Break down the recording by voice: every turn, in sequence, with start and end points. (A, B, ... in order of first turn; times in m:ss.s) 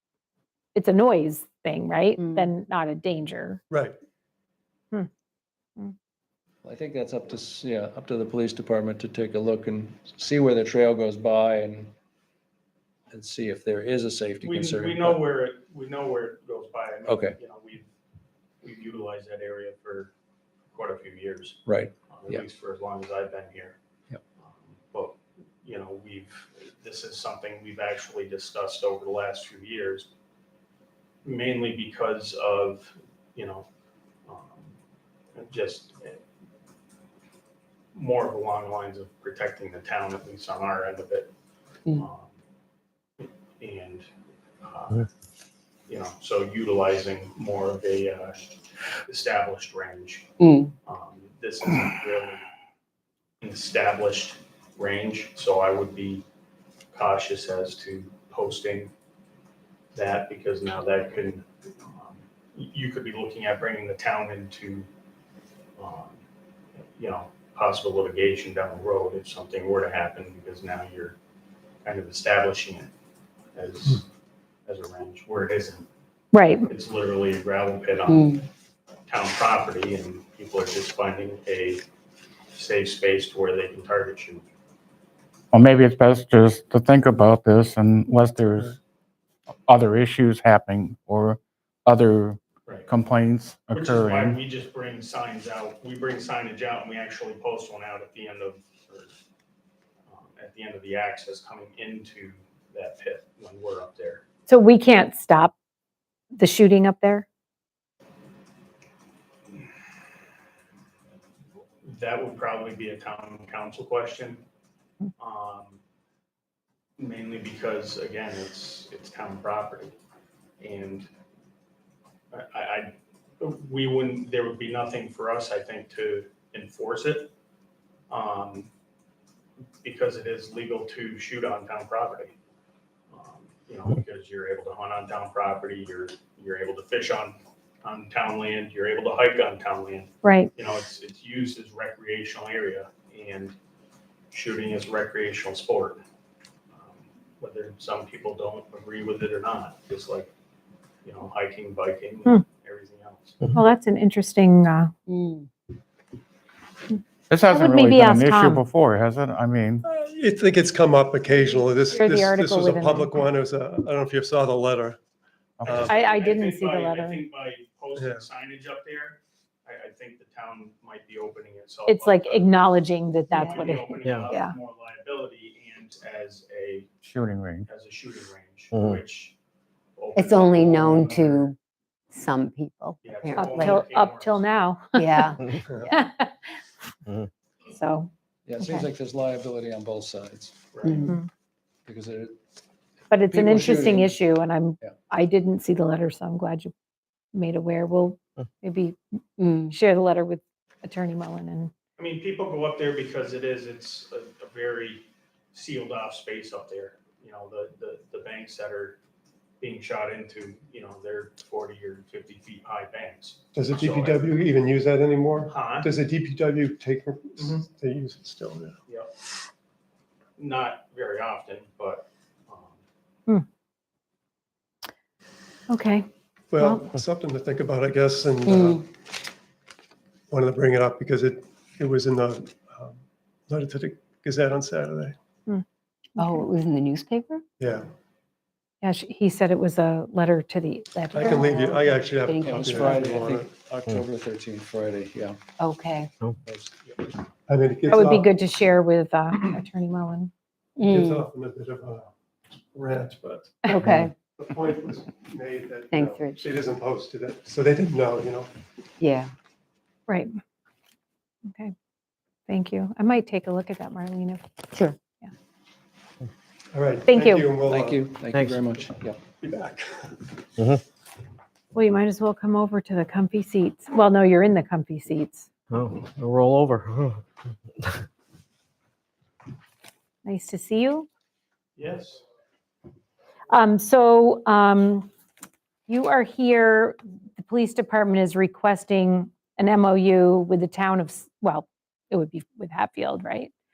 0:00.7-0:03.6 A
0:02.2-0:02.5 B
0:03.7-0:03.9 C
0:06.6-0:11.9 D
0:13.1-0:15.2 D
0:14.4-0:17.9 E
0:18.6-0:20.1 E
0:20.7-0:23.8 E
0:21.7-0:22.4 D
0:24.4-0:30.1 E
0:31.2-0:33.7 E
0:34.2-0:34.7 E
0:35.3-0:36.2 E
0:37.9-0:41.3 E
0:41.9-0:42.3 E
0:43.2-0:44.1 E
0:44.6-0:45.1 E
0:45.9-0:48.5 E
0:49.0-0:50.3 E
0:50.4-0:50.7 B
0:50.8-0:52.4 E
0:53.4-0:56.2 E
0:56.9-0:58.9 E
0:59.9-1:04.9 E
1:05.8-1:06.2 E
1:06.9-1:11.2 E
1:11.8-1:12.9 E
1:13.6-1:14.0 E
1:14.6-1:15.9 E
1:16.3-1:16.7 A
1:16.7-1:18.4 E
1:18.1-1:18.4 B
1:19.1-1:21.8 E
1:22.5-1:24.4 E
1:25.5-1:28.8 F
1:29.7-1:34.4 F
1:33.7-1:39.1 E
1:40.1-1:44.2 E
1:44.5-1:45.5 A
1:46.4-1:47.2 A
1:51.8-1:54.4 E
1:55.2-1:55.8 E
1:57.0-2:00.0 E
2:00.6-2:01.1 E
2:02.3-2:07.3 E
2:08.1-2:08.7 E
2:09.8-2:12.3 E
2:13.1-2:23.5 E
2:20.2-2:20.5 A
2:24.3-2:26.0 E
2:26.7-2:30.3 E
2:31.0-2:33.4 E
2:33.5-2:34.9 A
2:35.1-2:35.5 B
2:37.3-2:39.8 F
2:37.5-2:38.6 A
2:39.8-2:45.0 C
2:41.4-2:42.1 E
2:41.9-2:43.2 A
2:45.6-2:45.9 F
2:45.6-2:45.9 C
2:45.7-2:52.5 E
2:45.8-2:47.2 A
2:47.9-2:48.3 C
2:51.9-2:54.5 A
2:53.3-2:56.9 E
2:54.0-2:54.3 G
2:57.0-2:57.7 F
2:57.6-2:59.4 E
2:58.7-2:59.0 G
3:00.0-3:01.5 E
3:00.1-3:01.6 B
3:02.1-3:03.8 B
3:03.0-3:04.6 E
3:03.4-3:06.3 A
3:05.0-3:05.6 B
3:07.7-3:08.9 A
3:08.5-3:10.6 D
3:10.7-3:11.1 E
3:10.8-3:11.2 B
3:11.0-3:11.3 A
3:11.8-3:12.4 D
3:13.1-3:16.7 A
3:13.3-3:14.0 D
3:17.3-3:19.0 A
3:19.4-3:19.7 B
3:19.7-3:21.7 A
3:22.0-3:29.0 E
3:29.6-3:34.3 E
3:33.5-3:38.8 C
3:35.5-3:35.9 E
3:40.4-3:42.8 E
3:45.7-3:46.0 A
3:46.5-3:48.8 C
3:46.6-3:46.8 A
3:48.4-3:48.8 B
3:50.3-3:55.1 C
3:56.2-3:57.4 B
3:56.2-3:56.5 A
3:57.6-3:57.9 C
3:58.8-4:02.0 A
4:01.1-4:03.5 C
4:02.2-4:03.2 B
4:02.4-4:05.4 D
4:05.6-4:06.1 B
4:06.4-4:06.9 D
4:07.5-4:08.3 C
4:07.9-4:10.3 A
4:10.8-4:11.2 B
4:10.8-4:12.1 C
4:12.7-4:13.7 C
4:13.7-4:14.1 B
4:14.4-4:18.5 C
4:15.9-4:16.6 B
4:19.0-4:19.3 B
4:20.1-4:20.4 A
4:21.4-4:21.7 A
4:22.5-4:24.4 A
4:26.7-4:28.1 C
4:27.1-4:27.5 A
4:27.7-4:29.2 D
4:28.3-4:28.7 G
4:29.4-4:30.2 C
4:31.7-4:35.5 A
4:35.7-4:37.2 G
4:40.2-4:41.1 A
4:41.8-4:42.2 E
4:43.5-4:45.1 A
4:45.9-4:53.5 A